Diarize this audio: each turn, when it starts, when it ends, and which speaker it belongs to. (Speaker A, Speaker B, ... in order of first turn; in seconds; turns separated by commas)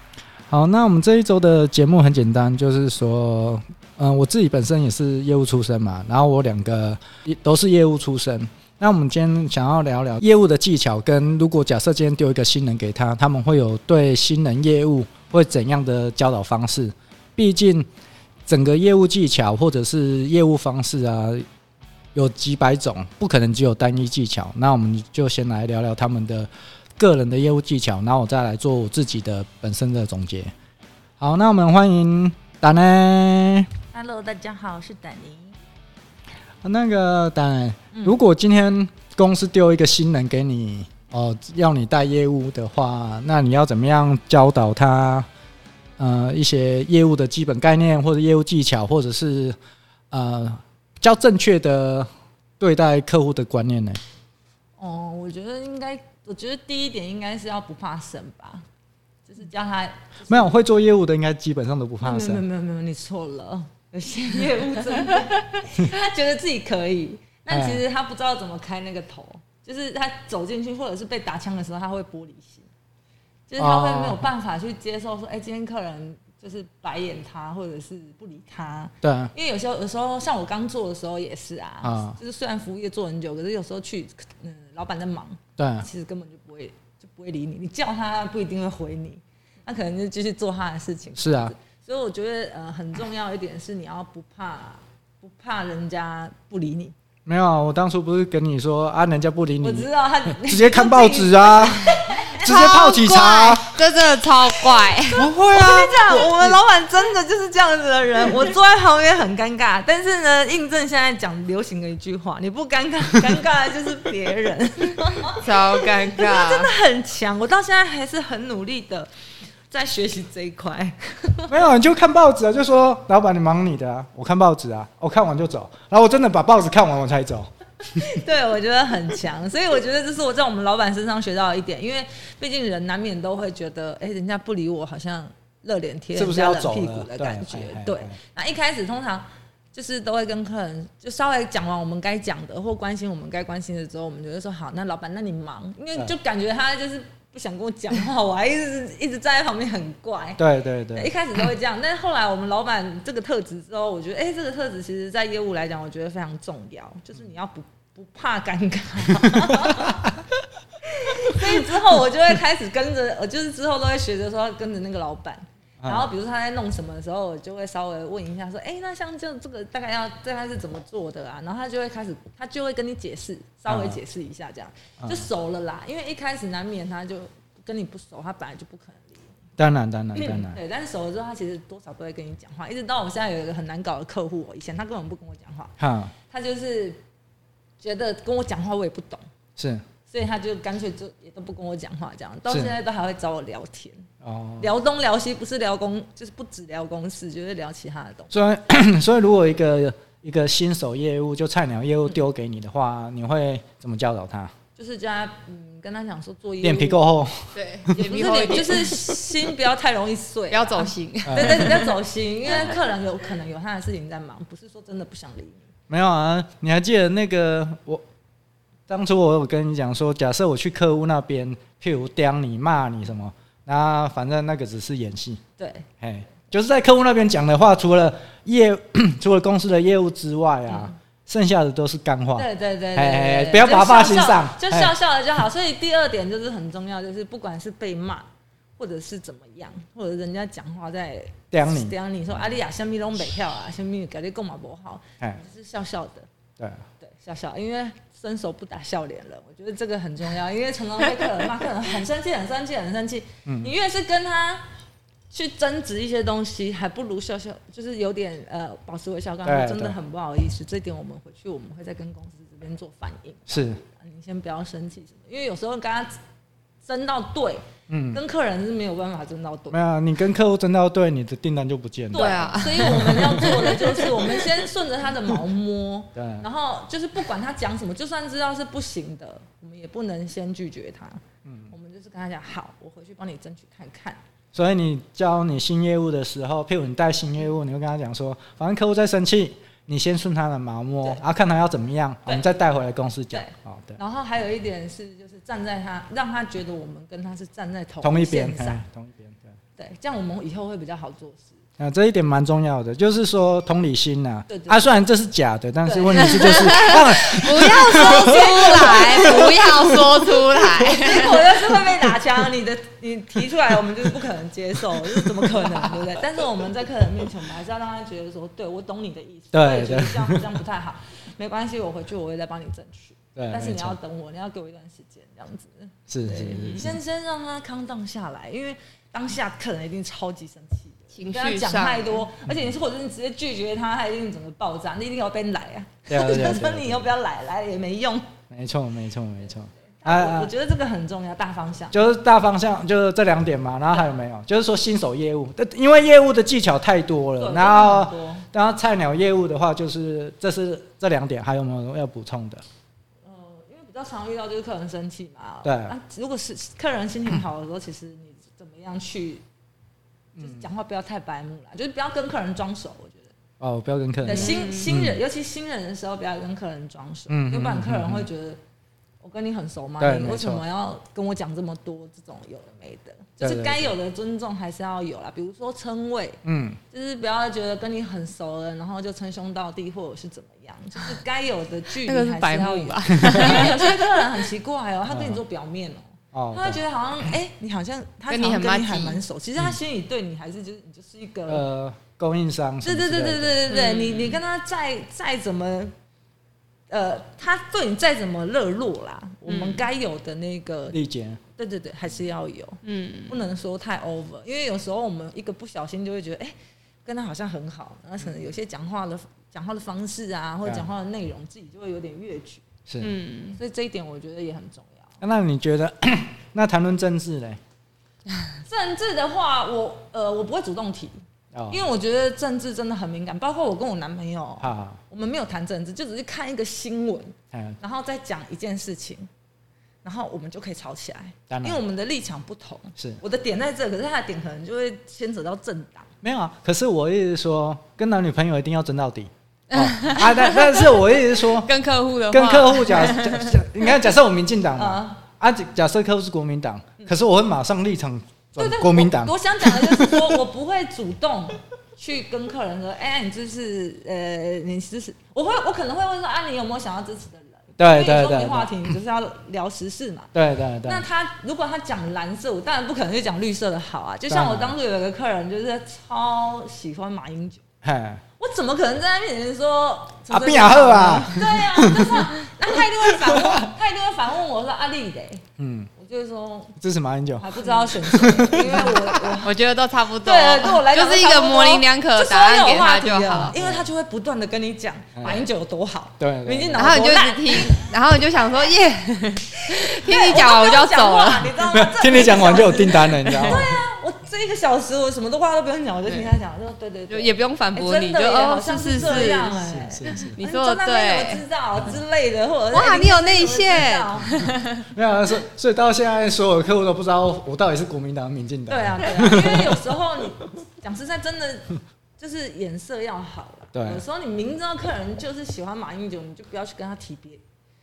Speaker A: 0.5-17.9, Speaker A: 18.5-21.5, Speaker A: 22.1-30.5, Speaker A: 31.2-33.7, Speaker B: 33.9-35.6, Speaker A: 36.6-45.3, Speaker A: 46.0-49.6, Speaker A: 50.1-52.1, Speaker A: 52.6-54.0, Speaker B: 54.8-58.7, Speaker B: 59.3-60.5, Speaker A: 60.3-62.4, Speaker B: 62.0-72.7, Speaker A: 67.5-67.8, Speaker B: 73.5-96.9, Speaker A: 73.6-74.3, Speaker A: 79.0-79.3, Speaker A: 81.8-82.2, Speaker A: 85.6-85.9, Speaker A: 91.2-91.5, Speaker A: 97.3-103.8, Speaker B: 99.6-102.5, Speaker C: 102.3-105.3, Speaker A: 105.1-106.6, Speaker B: 105.1-119.1, Speaker C: 115.2-116.7, Speaker B: 119.7-121.6, Speaker A: 121.5-127.5, Speaker B: 127.9-150.4, Speaker A: 136.2-138.2, Speaker A: 150.4-151.1, Speaker B: 150.9-160.1, Speaker A: 159.2-160.1, Speaker B: 160.8-179.3, Speaker A: 165.8-166.1, Speaker A: 173.7-174.0, Speaker A: 179.6-180.6, Speaker B: 180.2-185.8, Speaker A: 185.8-186.1, Speaker B: 186.3-187.0, Speaker B: 187.8-189.2, Speaker A: 189.6-189.8, Speaker B: 190.1-194.1, Speaker A: 194.2-194.7, Speaker B: 194.6-198.3, Speaker A: 198.3-204.5, Speaker B: 204.8-207.1, Speaker A: 206.6-207.5, Speaker C: 207.6-209.1, Speaker B: 207.9-215.7, Speaker C: 210.5-211.9, Speaker A: 211.3-211.8, Speaker A: 215.9-218.1, Speaker A: 218.9-225.4, Speaker B: 225.6-225.9, Speaker A: 226.0-234.9, Speaker B: 230.7-230.9, Speaker B: 232.4-246.3, Speaker A: 241.5-241.9, Speaker A: 246.6-246.8, Speaker B: 247.0-254.7, Speaker A: 253.5-253.7, Speaker B: 255.3-266.1, Speaker A: 259.4-260.0, Speaker A: 263.5-263.8, Speaker B: 266.9-269.8, Speaker A: 267.9-268.2, Speaker A: 269.7-273.5, Speaker B: 272.1-284.2, Speaker C: 272.1-274.1, Speaker A: 276.2-276.4, Speaker A: 281.4-281.7, Speaker A: 284.5-294.0, Speaker B: 292.3-292.5, Speaker B: 293.3-298.8, Speaker A: 298.0-299.5, Speaker B: 299.8-301.6, Speaker A: 301.8-309.8, Speaker B: 304.5-304.9, Speaker B: 305.8-338.3, Speaker C: 306.2-311.6, Speaker A: 319.5-320.6, Speaker A: 323.4-324.0, Speaker A: 326.1-327.0, Speaker C: 331.1-332.2, Speaker A: 336.1-337.1, Speaker A: 338.5-340.5, Speaker B: 339.9-342.0, Speaker A: 341.9-352.6, Speaker B: 347.4-348.4, Speaker B: 353.2-359.4, Speaker A: 355.6-355.9, Speaker A: 360.4-360.7, Speaker B: 360.4-363.3, Speaker A: 363.6-365.2, Speaker B: 364.2-368.6, Speaker C: 364.3-364.9, Speaker A: 367.3-368.3, Speaker B: 369.2-391.6, Speaker A: 370.0-370.6, Speaker A: 373.4-373.9, Speaker A: 376.4-376.8, Speaker C: 382.0-384.4, Speaker A: 383.2-383.5, Speaker A: 385.1-385.4, Speaker A: 386.3-386.8, Speaker C: 388.3-389.2, Speaker A: 391.5-393.6, Speaker B: 392.8-395.9, Speaker C: 393.7-394.4, Speaker B: 396.9-401.0, Speaker C: 399.5-399.9, Speaker A: 400.9-401.4, Speaker B: 401.6-412.6, Speaker C: 402.8-403.4, Speaker A: 412.9-413.1, Speaker C: 413.0-413.6, Speaker B: 413.6-415.1, Speaker A: 415.2-417.6, Speaker B: 418.6-421.2, Speaker A: 421.5-421.8, Speaker B: 421.7-429.3, Speaker A: 424.6-425.0, Speaker A: 427.5-427.8, Speaker B: 430.0-436.1, Speaker A: 431.5-431.8, Speaker A: 436.2-441.7, Speaker C: 439.7-443.6, Speaker A: 442.3-450.4, Speaker B: 444.8-445.2, Speaker B: 448.6-460.3, Speaker A: 457.8-458.9, Speaker A: 460.3-461.1, Speaker B: 460.8-467.6, Speaker A: 464.3-464.8, Speaker A: 467.8-468.2, Speaker B: 468.4-476.8, Speaker A: 470.3-472.3, Speaker A: 473.1-473.7, Speaker A: 475.6-475.9, Speaker A: 476.8-479.3, Speaker B: 477.4-479.5, Speaker C: 479.4-483.6, Speaker B: 480.2-487.9, Speaker A: 483.6-483.9, Speaker A: 485.2-485.5, Speaker A: 486.2-487.0, Speaker C: 486.8-491.6, Speaker B: 489.6-504.5, Speaker A: 491.7-493.8, Speaker C: 493.2-493.6, Speaker C: 496.1-496.4, Speaker C: 497.1-499.5, Speaker A: 498.9-500.4, Speaker C: 500.1-501.4, Speaker C: 502.7-504.9, Speaker A: 504.4-509.8, Speaker B: 508.7-517.4, Speaker A: 513.7-514.0